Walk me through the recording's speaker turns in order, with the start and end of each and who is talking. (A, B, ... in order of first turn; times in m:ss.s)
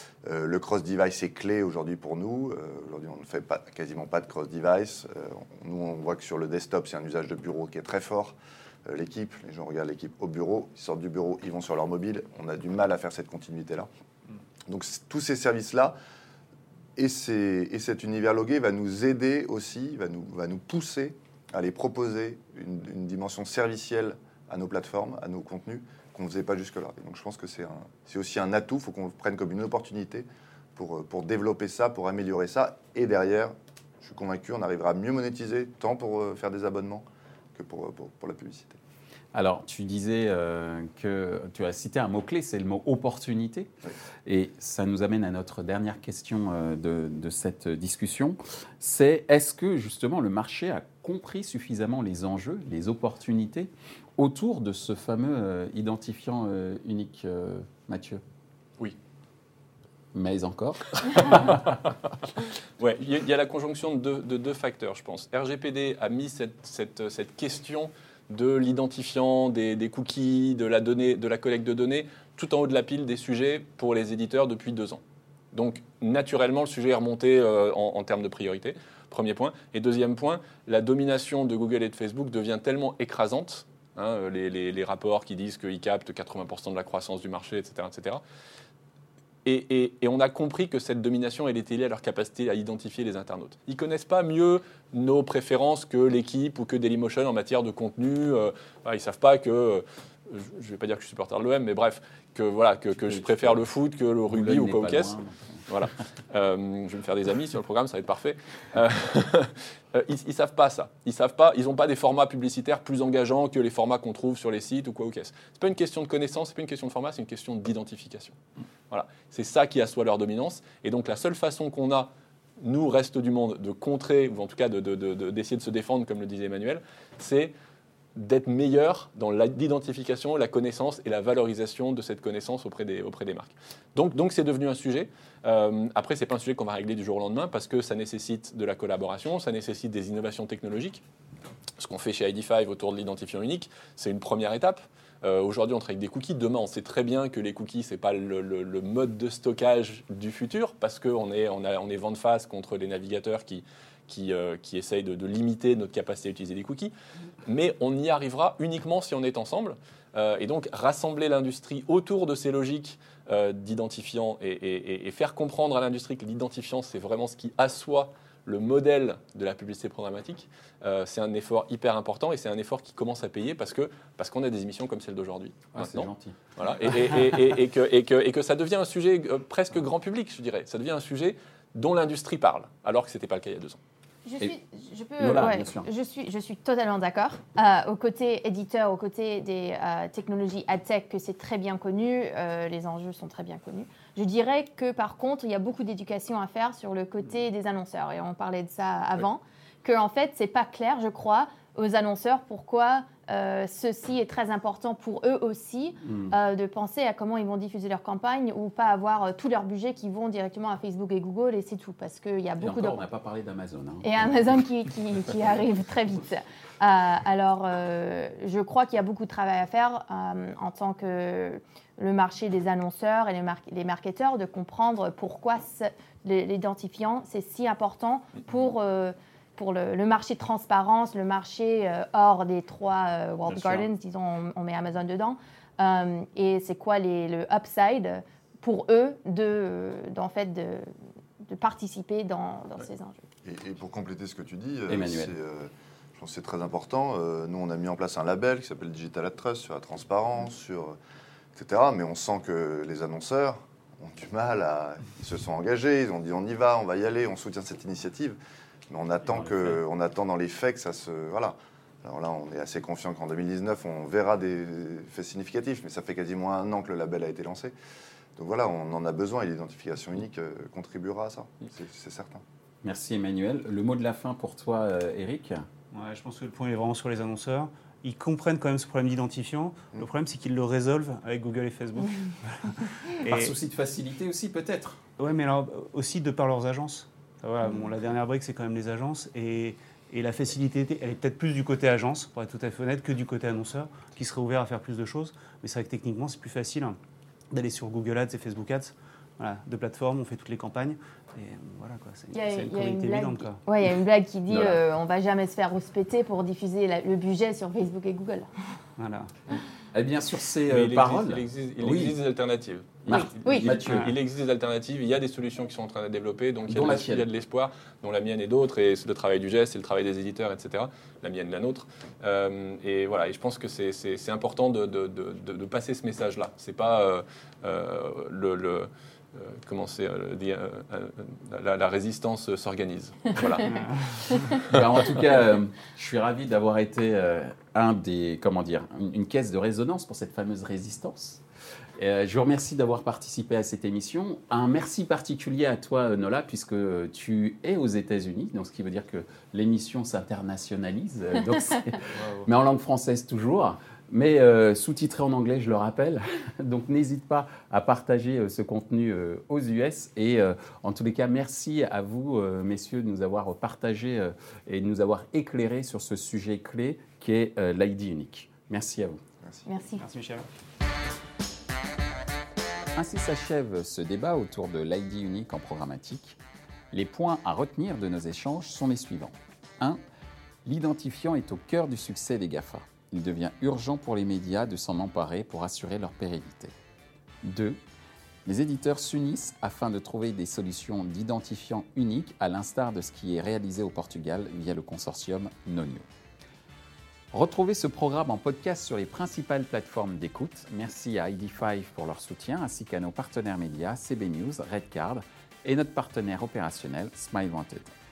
0:00.2-0:08.4 A
0:08.9-0:13.9 A
0:14.7-0:16.0 A
0:17.0-0:38.8 A
0:39.3-0:43.7 B
0:44.2-0:58.2 B
1:00.1-1:01.8 B
1:01.0-1:01.5 C
1:02.8-1:15.0 C
1:15.5-1:28.2 C
1:29.4-1:45.1 C
1:43.1-1:43.5 B
1:44.3-1:45.6 B
1:45.7-1:58.4 C
1:58.9-2:07.5 C
2:08.2-2:21.0 C
2:21.8-2:36.9 C
2:37.5-3:03.8 C
2:55.8-2:56.4 B
3:04.2-3:33.0 D
3:05.2-3:05.9 B
3:26.0-3:26.3 B
3:32.6-3:34.1 B
3:34.0-4:03.2 D
3:53.5-3:53.9 B
4:03.4-4:11.0 A
4:04.9-4:05.3 B
4:11.6-4:18.4 A
4:18.9-4:27.7 A
4:28.4-4:32.4 A
4:32.8-4:35.7 B
4:35.9-4:43.5 E
4:43.3-4:45.0 B
4:45.2-4:57.0 E
4:57.5-5:03.6 E
5:02.3-5:08.5 D
5:04.5-5:04.8 B
5:09.0-5:09.3 E
5:09.9-5:12.2 B
5:10.7-5:34.8 C
5:13.1-5:14.1 B
5:13.1-5:13.7 D
5:16.7-5:17.3 B
5:33.7-5:34.2 E
5:34.6-5:41.4 B
5:42.0-6:09.2 B
5:52.2-5:52.5 E
6:09.7-6:10.1 D
6:10.0-6:10.5 E
6:13.0-6:16.4 B
6:16.9-6:20.0 B
6:20.6-6:26.7 B
6:27.4-6:27.8 B
6:28.4-6:36.1 B
6:37.3-6:47.9 B